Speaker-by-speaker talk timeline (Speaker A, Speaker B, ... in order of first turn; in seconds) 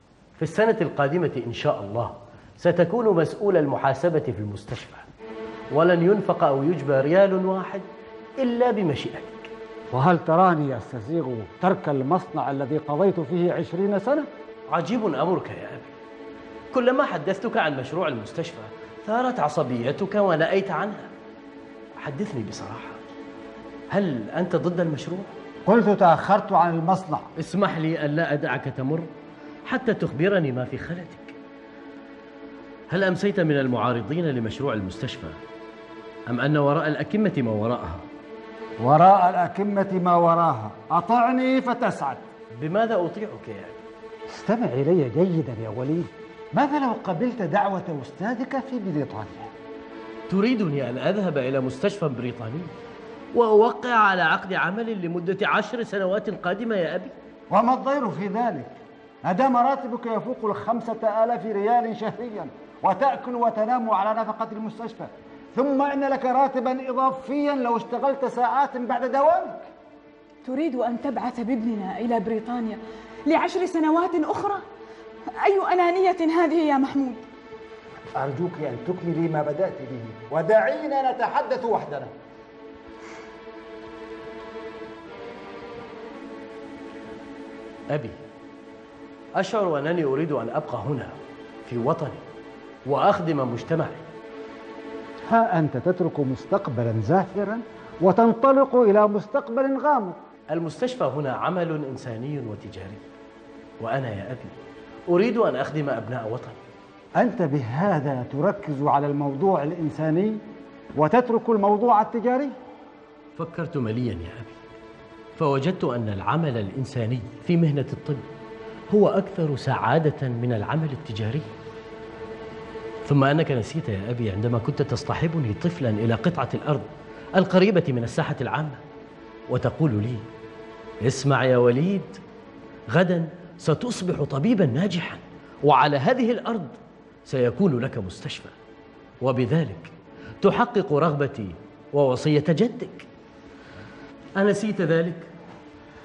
Speaker A: 0.4-5.1, 5.7-7.8, 8.4-9.5, 14.7-15.9, 16.7-21.1, 22.0-23.0, 23.9-25.3, 27.4-29.1, 29.6-31.4, 32.9-35.4, 36.3-38.0, 42.5-43.8, 50.3-52.7, 53.3-57.1, 87.9-88.2, 89.3-92.2, 92.8-94.1, 100.5-103.0, 103.8-106.6, 113.3-114.5, 115.4-118.3, 118.9-121.5, 123.0-128.8, 129.5-130.2, 131.0-132.2, 132.9-138.5, 139.2-143.1, 144.3-145.3
Speaker B: 9.9-14.3, 25.6-27.3, 38.8-42.3, 44.3-49.5, 57.5-69.7, 78.2-82.1, 95.2-100.2, 107.2-110.4, 111.0-112.5
Speaker C: 70.4-74.6, 75.4-77.2